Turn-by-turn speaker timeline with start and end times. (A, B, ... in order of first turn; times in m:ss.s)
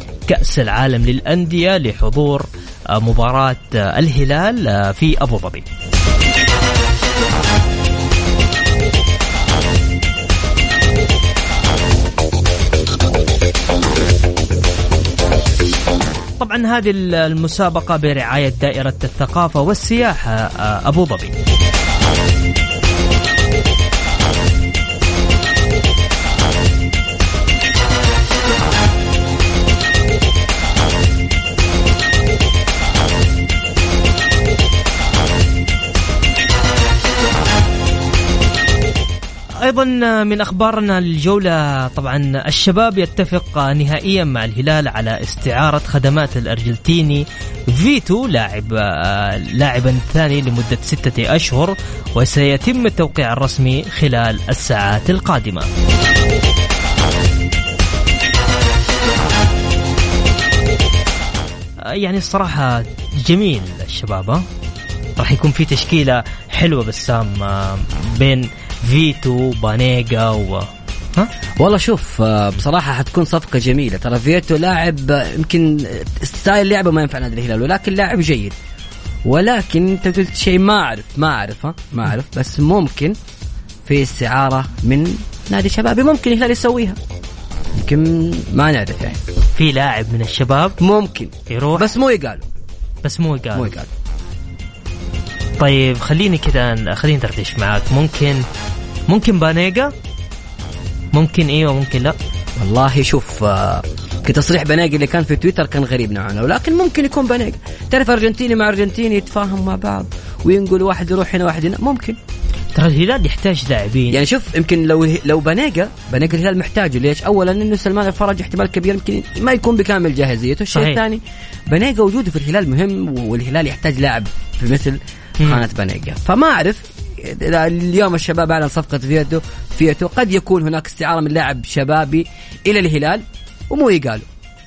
0:00.3-0:05.6 A
0:16.4-0:21.3 A
0:39.6-0:55.7 A
1:01.9-1:04.4 A
1:05.2-1:11.3 A
1:11.6-1:18.5 B
1:19.2-1:23.2 B
1:23.9-1:27.0 B
1:27.7-1:29.2 B
1:29.5-1:30.8 A
1:30.8-1:32.4 B
1:31.5-1:31.9 A
1:33.0-1:33.7 A
1:33.5-1:33.9 B
1:35.6-1:38.4 A
1:39.1-1:39.9 A
1:41.1-1:42.1 A
1:42.6-1:52.2 B
1:52.7-1:54.2 A
1:54.1-2:14.3 B
2:00.7-2:01.0 A